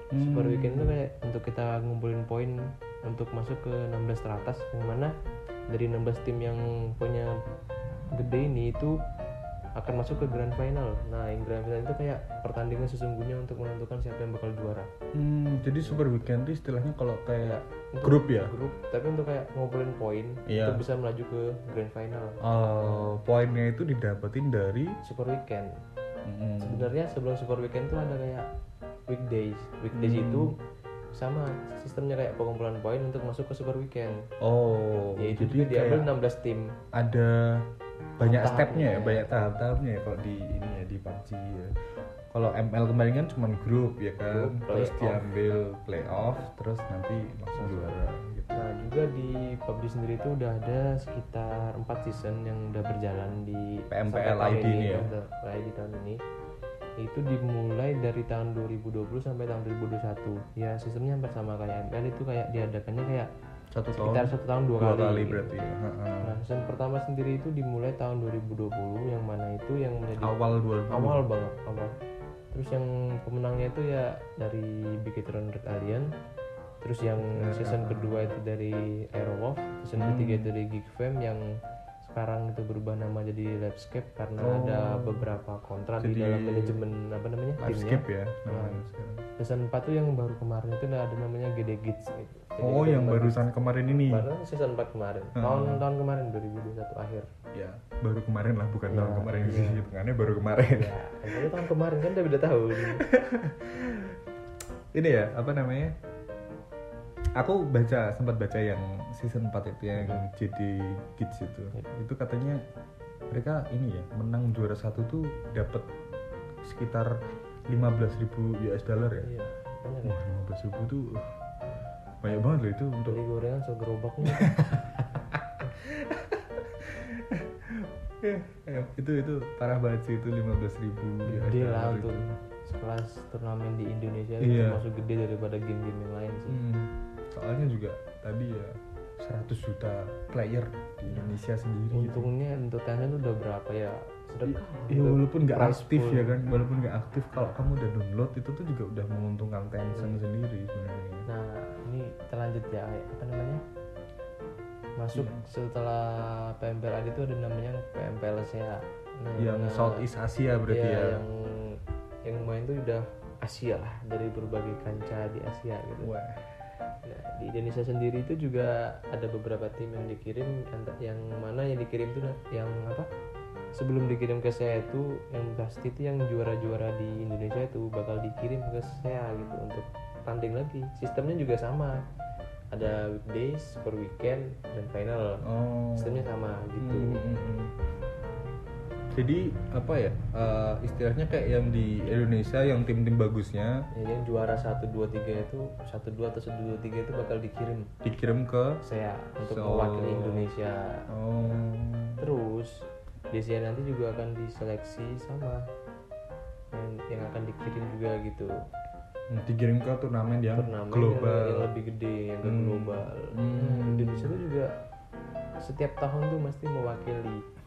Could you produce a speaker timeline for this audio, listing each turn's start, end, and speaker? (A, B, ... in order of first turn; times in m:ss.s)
0:00.1-0:01.0 A
0:00.2-0:05.1 B
0:05.7-0:07.4 B
0:08.1-0:09.0 B
0:09.8-0:14.9 B
0:15.1-0:18.6 A
0:15.8-0:16.1 B
0:17.4-0:23.2 B
0:20.5-0:20.8 A
0:22.4-0:25.0 A
0:25.0-0:25.7 B
0:26.2-0:26.9 A
0:26.6-0:28.5 B
0:29.1-0:30.6 B
0:29.9-0:30.5 A
0:31.2-0:34.2 B
0:34.4-0:36.1 A
0:35.2-0:36.7 B
0:36.9-0:41.8 A
0:38.2-0:39.4 B
0:42.3-0:48.7 A
0:44.3-0:45.3 B
0:47.6-0:47.9 B
0:48.5-0:56.2 B
0:53.9-0:55.1 A
0:57.0-1:03.3 B
1:03.7-1:06.4 A
1:04.0-1:05.6 B
1:06.2-1:10.4 B
1:10.2-1:11.3 A
1:10.9-1:12.0 B
1:12.5-1:16.1 B
1:16.8-1:21.4 B
1:17.2-1:18.3 A
1:20.0-1:20.5 A
1:22.0-1:28.8 B
1:24.4-1:25.3 A
1:26.0-1:26.8 A
1:27.6-1:29.2 A
1:29.4-1:33.5 B
1:32.6-1:34.3 A
1:34.0-1:37.3 B
1:35.4-1:35.8 A
1:37.5-1:41.6 A
1:38.9-1:39.9 B
1:40.6-1:43.1 B
1:42.8-1:44.2 A
1:44.9-1:46.0 A
1:47.4-1:52.6 A
1:50.0-1:50.2 B
1:53.3-1:55.9 A
1:56.6-1:57.2 A
1:57.7-1:59.3 A
1:59.2-2:00.2 B
2:00.0-2:01.4 A
2:02.2-2:03.2 A
2:03.1-2:04.6 B
2:04.3-2:12.4 A
2:11.2-2:16.6 B
2:14.4-2:14.8 A
2:16.5-2:22.3 A
2:21.9-2:26.4 B
2:24.4-2:31.3 A
2:29.9-2:30.2 B
2:31.3-2:33.6 B
2:35.0-2:40.0 B
2:35.1-2:35.4 A
2:39.4-2:41.2 A
2:40.7-2:46.1 B
2:46.0-2:46.5 A
2:47.0-2:53.1 B
2:53.7-3:02.0 B
3:02.7-3:05.4 B
3:05.4-3:06.3 A
3:06.0-3:07.3 B
3:06.8-3:07.7 A
3:09.1-3:13.9 A
3:13.9-3:17.9 B
3:18.0-3:18.8 A
3:18.8-3:21.1 B
3:19.4-3:20.5 A
3:21.1-3:22.3 A
3:22.2-3:25.6 B
3:26.7-3:28.6 B
3:29.3-3:31.7 A
3:30.5-3:34.7 B
3:32.4-3:34.4 A
3:35.6-3:37.4 B